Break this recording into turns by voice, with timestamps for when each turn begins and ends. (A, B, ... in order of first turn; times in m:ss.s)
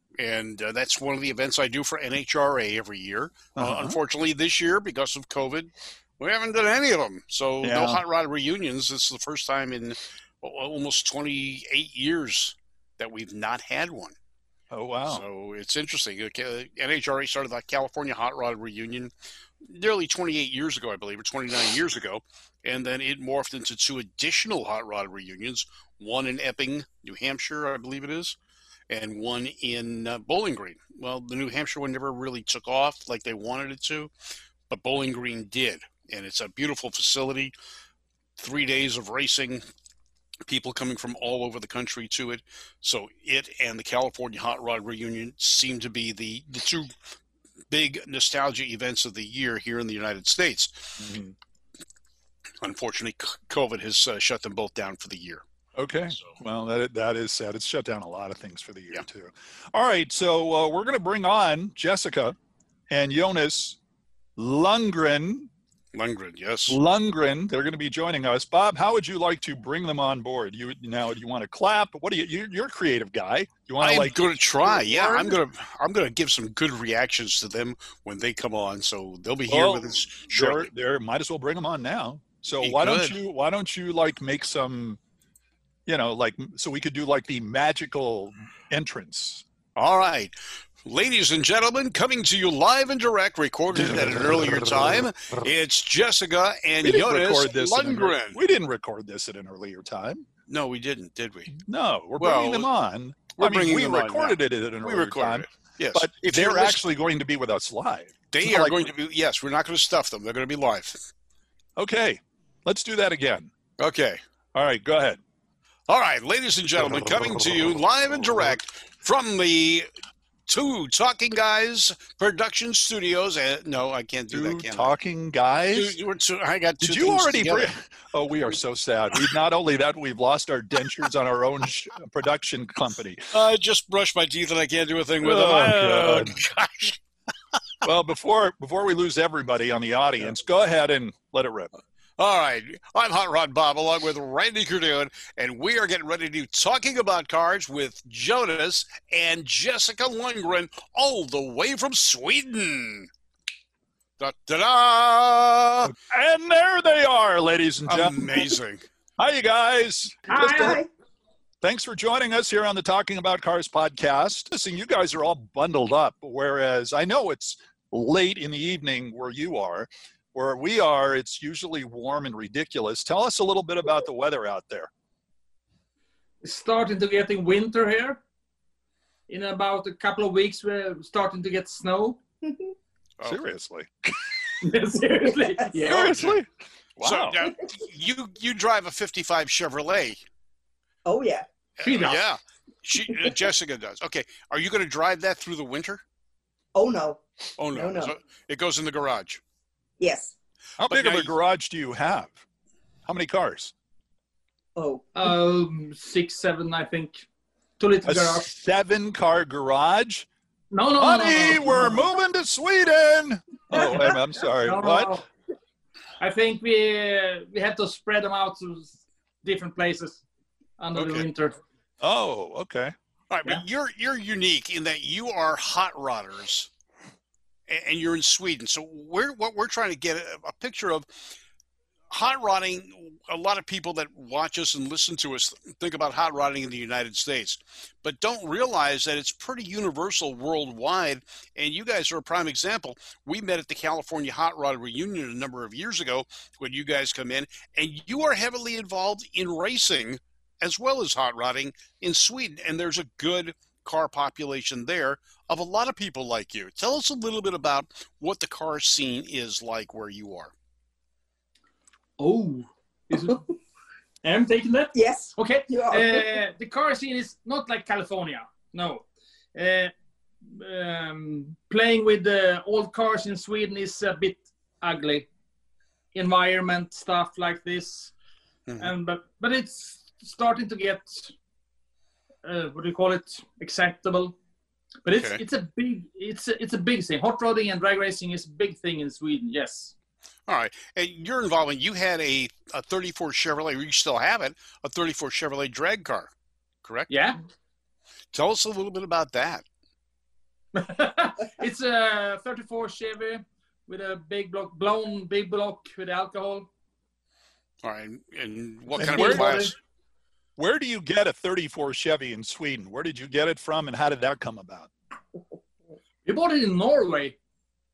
0:00.2-0:14.2 A
0:03.6-0:04.0 B
0:07.6-0:08.0 B
0:14.7-0:15.2 B
0:15.1-0:19.1 A
0:19.7-0:28.4 A
0:28.9-0:34.1 A
0:34.7-0:37.5 A
0:38.4-0:39.6 A
0:40.5-0:46.9 A
0:47.7-0:51.0 A
0:51.0-0:51.4 B
0:52.6-0:55.4 A
0:55.8-1:02.4 B
1:02.9-1:03.8 B
1:04.4-1:05.5 B
1:05.9-1:06.8 A
1:06.7-1:15.4 B
1:13.8-1:20.7 A
1:19.5-1:25.0 B
1:22.6-1:23.2 A
1:25.9-1:29.4 B
1:29.8-1:30.3 A
1:30.8-1:38.4 A
1:33.8-1:34.1 B
1:36.8-1:40.2 B
1:40.5-1:41.6 A
1:41.6-1:48.9 B
1:42.2-1:42.7 A
1:43.4-1:46.8 A
1:48.3-1:51.0 A
1:51.8-1:53.5 B
1:53.8-1:54.2 A
1:54.6-1:55.2 B
1:55.9-1:59.9 A
2:00.5-2:04.9 A
2:04.3-2:06.0 B
2:05.7-2:07.7 A
2:06.8-2:13.3 B
2:13.3-2:17.0 A
2:15.2-2:16.4 B
2:17.8-2:21.7 B
2:22.2-2:33.1 A
2:34.2-2:35.9 A
2:35.8-2:38.5 B
2:37.9-2:38.8 A
2:39.2-2:40.8 B
2:40.3-2:40.8 C
2:40.6-2:40.9 D
2:41.6-2:54.9 B
2:56.4-2:58.2 C
2:59.3-3:02.2 C
3:03.2-3:04.4 B
3:04.6-3:06.3 C
3:05.8-3:07.5 B
3:05.9-3:06.3 A
3:07.0-3:10.2 A
3:11.0-3:11.5 D
3:11.8-3:16.0 A
3:11.8-3:12.2 C
3:16.8-3:18.1 D
3:17.6-3:19.4 A
3:20.0-3:20.3 D
3:20.8-3:22.4 B
3:20.8-3:21.3 A
3:23.1-3:23.7 B
3:24.8-3:25.1 D
3:25.2-3:27.3 C
3:27.8-3:28.5 C
3:28.0-3:30.3 B
3:30.7-3:32.1 C
3:31.0-3:35.1 B
3:33.7-3:35.3 C
3:36.2-3:40.2 C
3:40.8-3:41.6 C
3:41.0-3:41.3 A
3:42.0-3:42.9 B
3:43.3-3:46.7 A
3:47.7-3:51.1 A
3:52.1-4:20.5 A
4:22.2-4:23.4 C
4:24.2-4:29.9 C
4:25.0-4:26.3 D
4:30.4-4:35.3 C
4:36.1-4:38.1 C
4:38.8-4:41.3 C
4:42.4-4:44.4 C
4:45.0-4:49.9 C
4:45.2-4:45.4 A
4:50.5-4:56.3 A
4:56.8-4:57.1 A
4:57.1-4:57.4 C
4:58.3-4:59.6 A
5:00.8-5:06.7 C
5:07.8-5:09.7 A
5:09.0-5:09.7 B
5:09.1-5:09.7 C
5:10.6-5:14.9 B
5:16.3-5:17.4 C